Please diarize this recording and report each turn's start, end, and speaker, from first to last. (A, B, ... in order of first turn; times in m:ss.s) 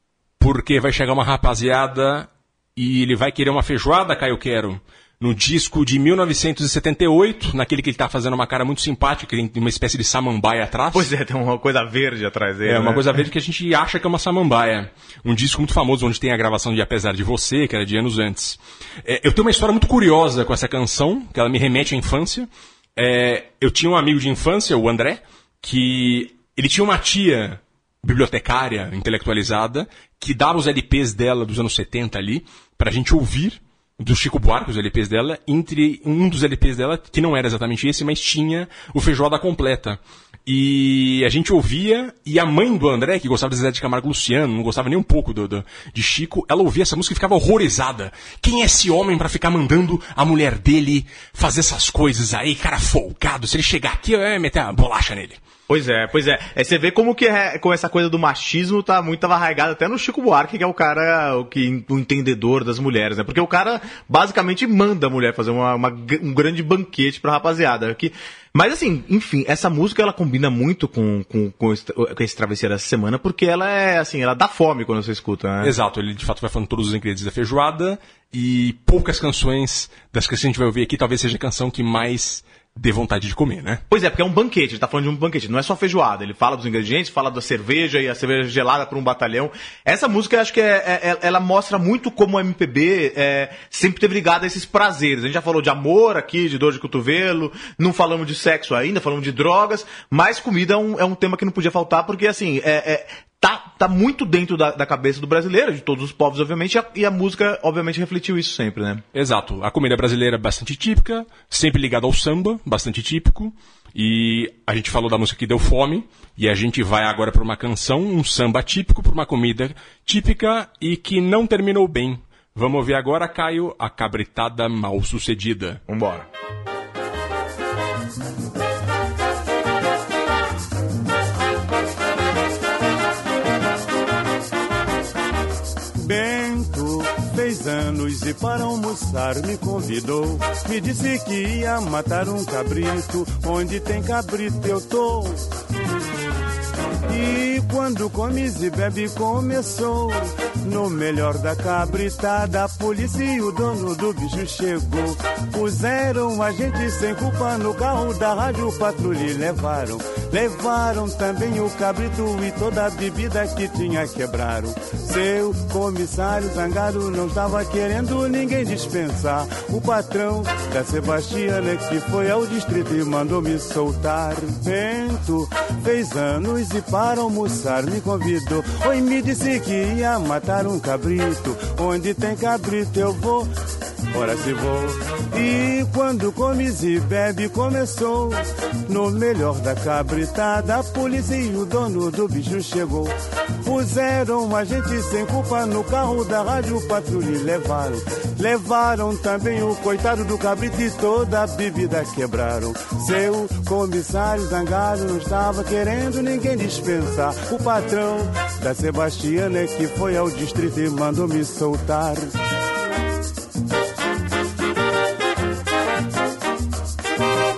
0:00.4-0:11.1 A
0:10.9-0:13.2 B
0:12.6-0:55.4 A
0:55.7-1:15.7 B
1:15.6-1:23.8 A
1:23.9-1:49.0 B
1:49.1-2:05.8 A
2:05.9-2:06.3 B
2:16.0-2:25.4 C
2:27.1-3:03.5 C
3:04.1-3:32.3 C